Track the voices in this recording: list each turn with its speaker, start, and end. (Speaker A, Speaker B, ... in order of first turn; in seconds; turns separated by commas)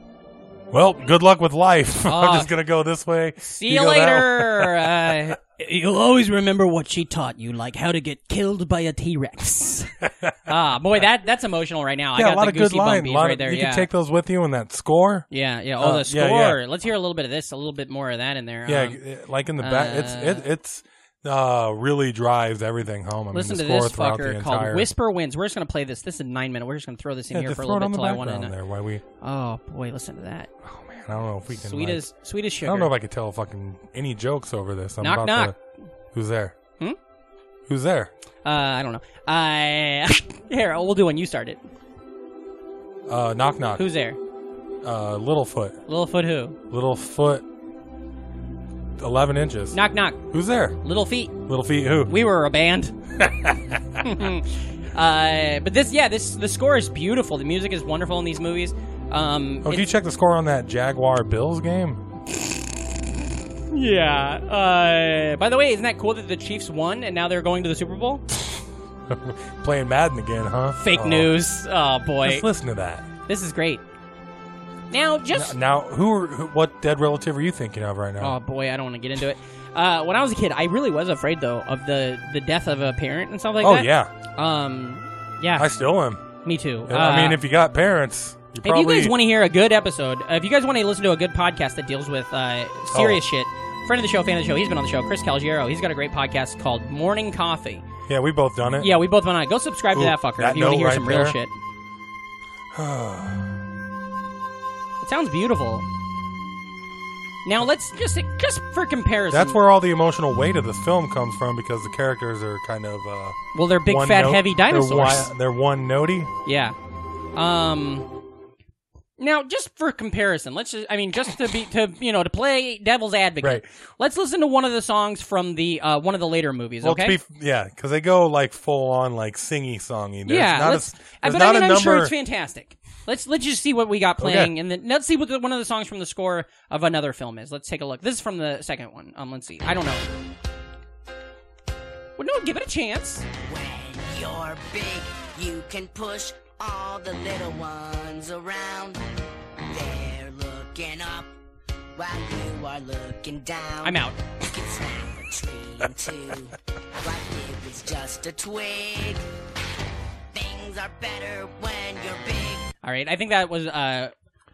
Speaker A: 0.7-5.2, Speaker B: 2.0-2.5, Speaker B: 3.4-13.9, Speaker A: 12.2-15.2, Speaker B: 15.3-19.0, Speaker A: 15.8-16.6, Speaker A: 18.7-24.9, Speaker B: 19.6-20.4, Speaker B: 23.3-28.5, Speaker A: 27.3-29.0, Speaker B: 29.2-30.5, Speaker A: 30.6-32.0, Speaker B: 31.5-32.9, Speaker A: 32.6-35.5, Speaker B: 35.0-35.5, Speaker A: 36.1-36.5, Speaker A: 37.7-38.1, Speaker B: 38.4-41.6, Speaker A: 43.1-43.8, Speaker B: 43.8-44.2, Speaker A: 44.8-45.8, Speaker B: 45.9-46.6, Speaker A: 46.7-47.4, Speaker A: 49.0-50.8, Speaker B: 49.7-50.2, Speaker B: 50.8-51.4, Speaker A: 51.5-52.1, Speaker B: 52.0-53.0, Speaker A: 53.2-54.0, Speaker B: 54.0-59.9, Speaker A: 59.6-62.0, Speaker B: 63.7-68.2, Speaker A: 68.4-71.3, Speaker B: 70.8-72.5, Speaker A: 72.2-73.1, Speaker B: 73.2-73.8, Speaker B: 74.9-75.5, Speaker A: 75.3-78.3, Speaker B: 78.2-85.7, Speaker A: 83.6-84.1, Speaker A: 85.5-86.2, Speaker B: 86.4-87.4, Speaker A: 86.9-89.1, Speaker B: 88.6-97.8, Speaker A: 92.9-93.2, Speaker A: 98.1-99.0, Speaker B: 98.8-101.5, Speaker A: 99.9-101.4, Speaker A: 102.7-103.5, Speaker B: 105.0-105.8, Speaker B: 107.4-109.6, Speaker A: 109.3-116.3, Speaker B: 113.5-115.3, Speaker B: 116.4-116.8, Speaker B: 117.3-118.1, Speaker B: 119.2-127.2, Speaker A: 126.8-132.1, Speaker B: 130.2-140.0, Speaker A: 134.2-134.5, Speaker B: 142.2-143.2, Speaker C: 143.4-149.0, Speaker C: 149.7-151.3, Speaker C: 152.0-159.2, Speaker B: 153.8-154.2, Speaker C: 160.3-162.7, Speaker B: 162.8-164.1